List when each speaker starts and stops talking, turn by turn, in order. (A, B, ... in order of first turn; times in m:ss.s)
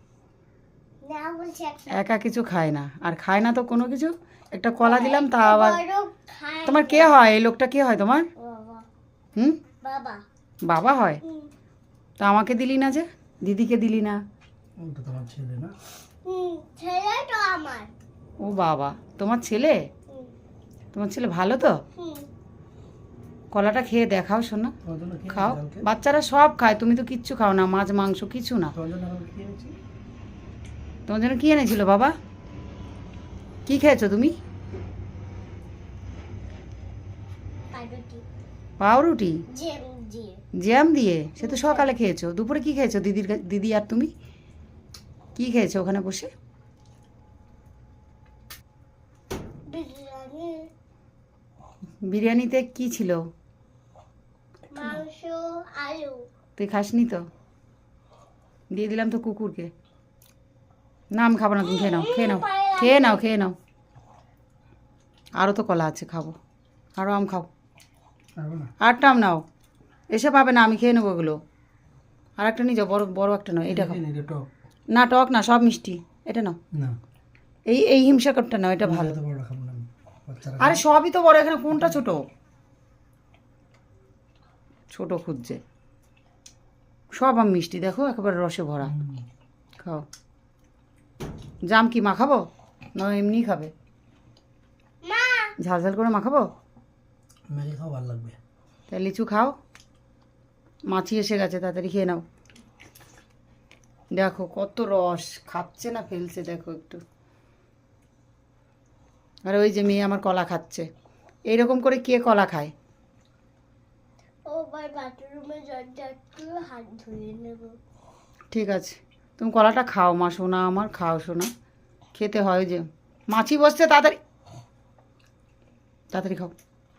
0:01.0-0:02.0 A
0:01.9-0:05.8 B
0:04.8-0:07.1 A
0:06.7-0:08.3 B
0:08.4-0:08.9 A
0:09.8-0:10.2 A
0:10.7-0:11.2 B
0:11.2-0:11.5 A
0:12.2-0:14.2 B
0:14.8-0:15.8 C
0:16.2-0:17.9 A
0:18.4-0:19.9 B
0:20.9-0:21.8 B
0:22.0-0:22.3 A
0:23.5-0:24.8 B
0:24.8-0:25.9 C
0:25.3-0:28.8 B
0:28.7-0:29.8 C
0:31.1-0:32.1 B
0:33.7-0:34.4 B
0:37.7-0:38.2 A
0:38.8-0:39.4 B
0:39.5-0:40.4 A
0:40.6-0:44.1 B
0:41.4-0:41.9 A
0:45.4-0:46.3 B
0:49.7-0:50.7 A
0:52.1-0:53.3 B
0:54.7-0:56.3 A
0:56.6-0:57.3 B
0:58.7-0:59.7 B
1:01.1-1:03.6 B
1:01.6-1:03.3 A
1:05.4-1:06.4 B
1:07.0-1:07.5 B
1:08.4-1:08.7 C
1:08.8-1:09.4 B
1:10.1-1:11.4 B
1:12.4-1:14.0 B
1:13.7-1:14.5 C
1:14.9-1:16.6 B
1:17.7-1:19.2 B
1:18.8-1:20.8 C
1:20.6-1:22.2 B
1:24.9-1:25.6 B
1:27.2-1:29.0 B
1:28.8-1:29.2 C
1:31.7-1:32.4 B
1:33.0-1:33.7 B
1:35.0-1:35.5 A
1:35.6-1:36.5 B
1:37.5-1:38.4 C
1:38.9-1:39.6 B
1:40.9-1:42.2 B
1:44.1-1:47.0 B
1:49.5-1:50.9 B
1:51.5-1:52.7 B
1:54.5-1:57.8 A
1:58.5-2:01.5 B
2:02.2-2:04.2 B
2:06.1-2:06.5 B